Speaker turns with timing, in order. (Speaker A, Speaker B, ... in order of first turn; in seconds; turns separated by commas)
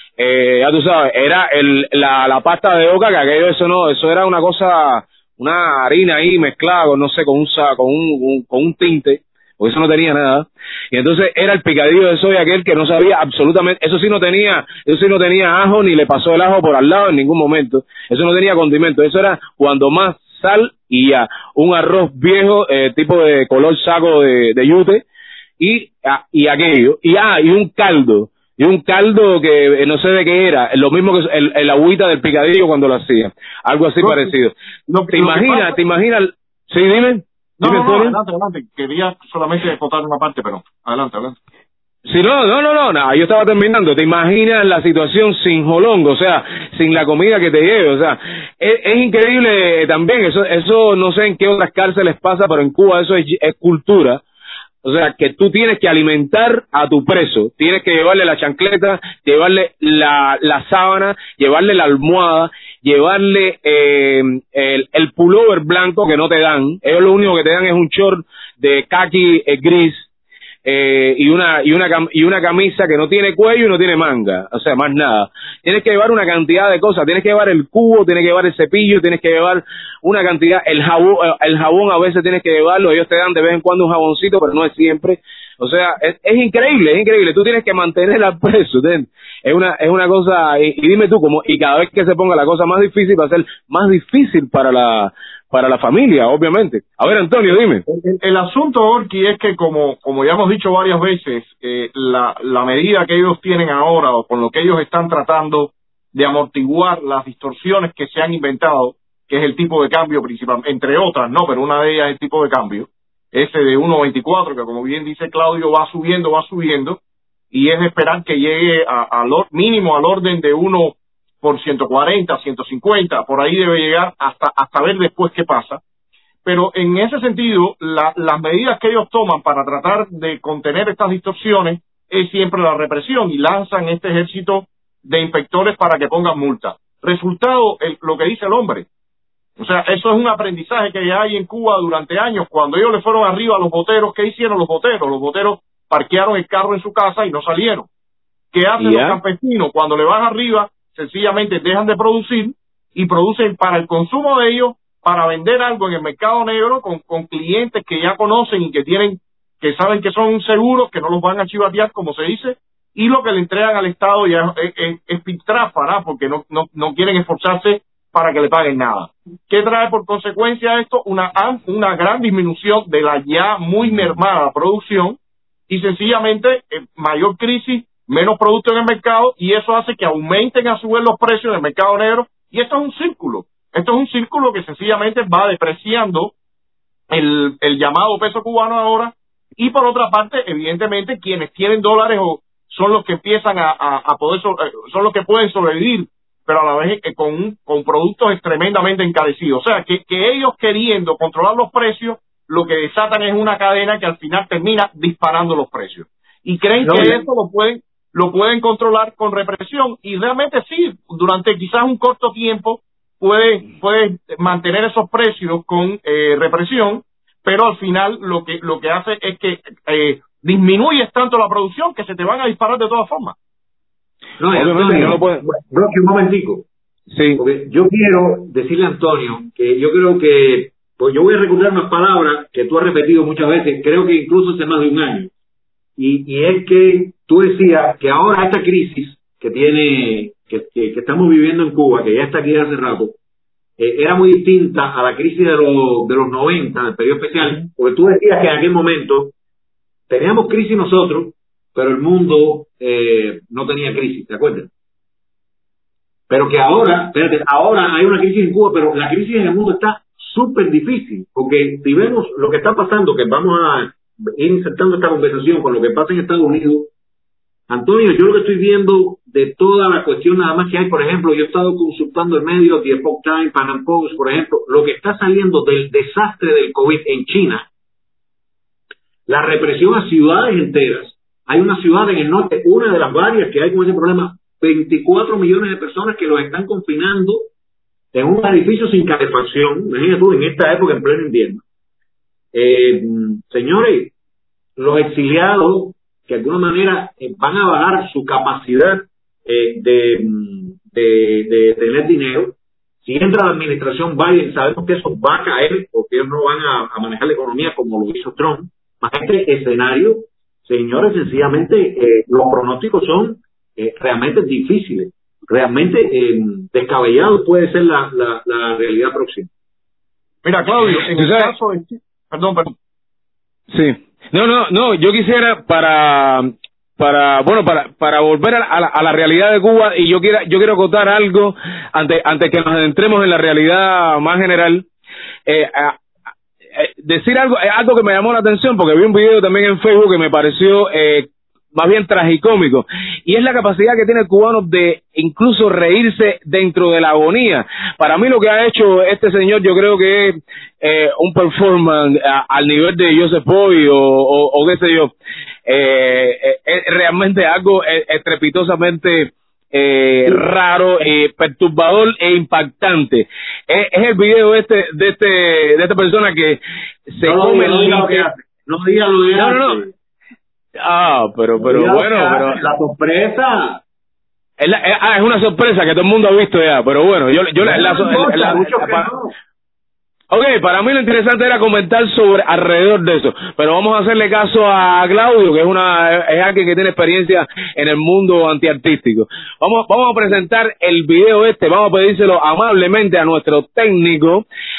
Speaker A: 0.2-25.0, Speaker A: 25.6-34.5, Speaker B: 34.0-34.3, Speaker B: 34.9-35.8, Speaker A: 35.1-38.1, Speaker B: 37.6-41.4, Speaker A: 42.1-54.2, Speaker A: 54.8-70.0, Speaker A: 70.6-97.8, Speaker B: 97.8-117.0, Speaker B: 117.5-125.8, Speaker B: 126.4-138.9, Speaker B: 139.6-147.9, Speaker B: 148.5-175.2, Speaker A: 148.8-149.2, Speaker B: 175.7-186.3, Speaker B: 187.1-223.3, Speaker C: 206.8-207.2, Speaker C: 224.4-226.7, Speaker A: 224.5-225.4, Speaker A: 227.1-227.4, Speaker C: 227.3-235.3, Speaker C: 236.0-243.2, Speaker C: 243.8-249.3, Speaker C: 250.1-254.7, Speaker C: 256.3-266.9, Speaker C: 267.7-277.7, Speaker C: 279.3-287.5, Speaker C: 288.1-291.6, Speaker C: 292.5-294.1, Speaker C: 294.8-319.5, Speaker B: 320.4-322.7, Speaker A: 321.1-321.5, Speaker A: 323.7-334.8, Speaker A: 335.5-336.0, Speaker A: 336.7-355.1, Speaker A: 355.6-368.3, Speaker C: 367.2-369.9, Speaker A: 369.3-369.8, Speaker A: 370.8-372.6, Speaker C: 371.6-373.8, Speaker A: 374.6-379.1, Speaker C: 377.6-379.3, Speaker A: 380.3-394.4